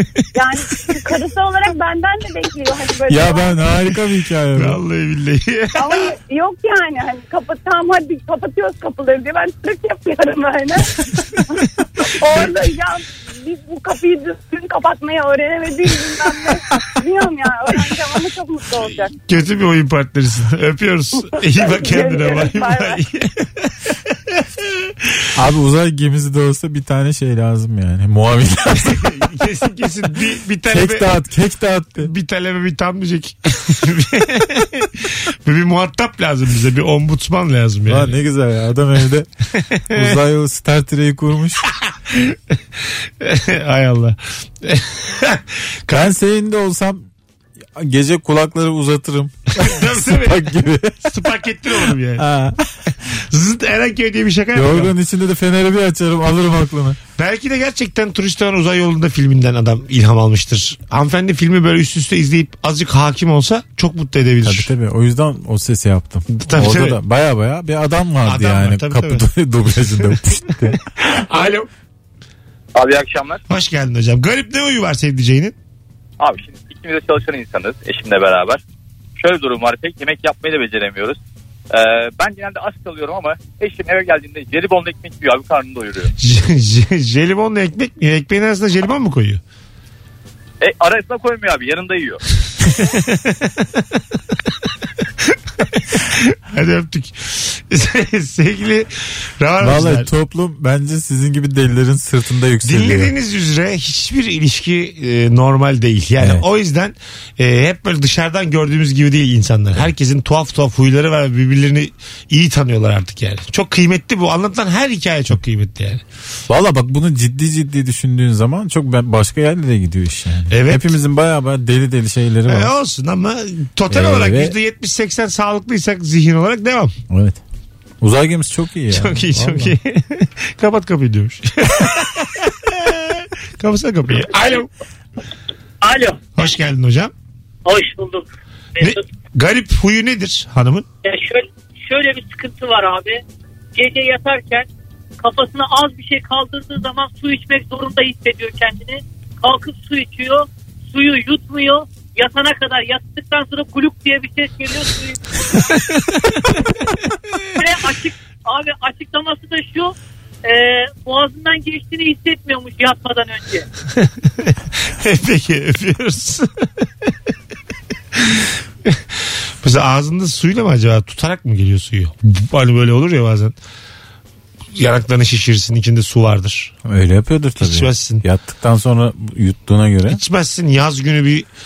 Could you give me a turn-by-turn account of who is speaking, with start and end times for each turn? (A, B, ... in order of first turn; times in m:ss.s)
0:00.3-0:03.6 A
0:03.1-0:04.8 B
0:04.6-0:06.1 C
0:05.8-0:19.1 A
0:12.3-0:12.6 C
0:19.3-0:23.7 C
0:21.4-0:23.0 A
0:25.4-0:29.1 B
0:28.8-0:31.1 C
0:30.7-0:32.1 B
0:32.0-0:38.1 C
0:37.9-0:39.3 B
0:39.9-0:41.7 B
0:43.2-0:46.1 C
0:45.9-0:47.1 B
0:47.8-0:51.0 B
0:49.6-0:52.2 C
0:52.2-0:53.0 B
0:53.1-0:54.9 C
0:54.5-0:57.0 B
0:57.2-1:04.7 C
1:04.4-1:10.8 B
1:06.3-1:07.0 C
1:08.2-1:09.3 C
1:11.0-1:11.7 C
1:12.8-1:13.4 D
1:13.5-1:15.6 C
1:16.2-1:18.6 D
1:19.2-1:21.2 D
1:21.7-1:26.1 D
1:26.2-1:29.4 C
1:30.6-1:32.2 D
1:32.7-1:33.4 C
1:35.9-1:40.1 C
1:39.6-1:43.1 B
1:42.6-1:56.0 C
1:46.2-1:46.4 B
1:56.5-2:02.7 B
2:00.5-2:00.9 C
2:02.5-2:06.9 C
2:03.9-2:04.6 B
2:07.1-2:07.4 B
2:08.0-2:09.8 B
2:08.9-2:13.0 C
2:13.6-2:14.7 C
2:15.8-2:16.2 E
2:16.4-2:17.1 C
2:17.6-2:19.0 E
2:18.8-2:20.9 C
2:21.0-2:23.2 E
2:23.8-2:24.7 E
2:25.2-2:35.6 E
2:37.5-2:43.7 E
2:44.0-2:46.5 C
2:48.2-2:49.0 C
2:49.6-2:53.6 C
2:54.8-2:56.7 C
2:56.9-3:00.2 B
2:57.6-2:58.2 C
3:00.1-3:01.5 C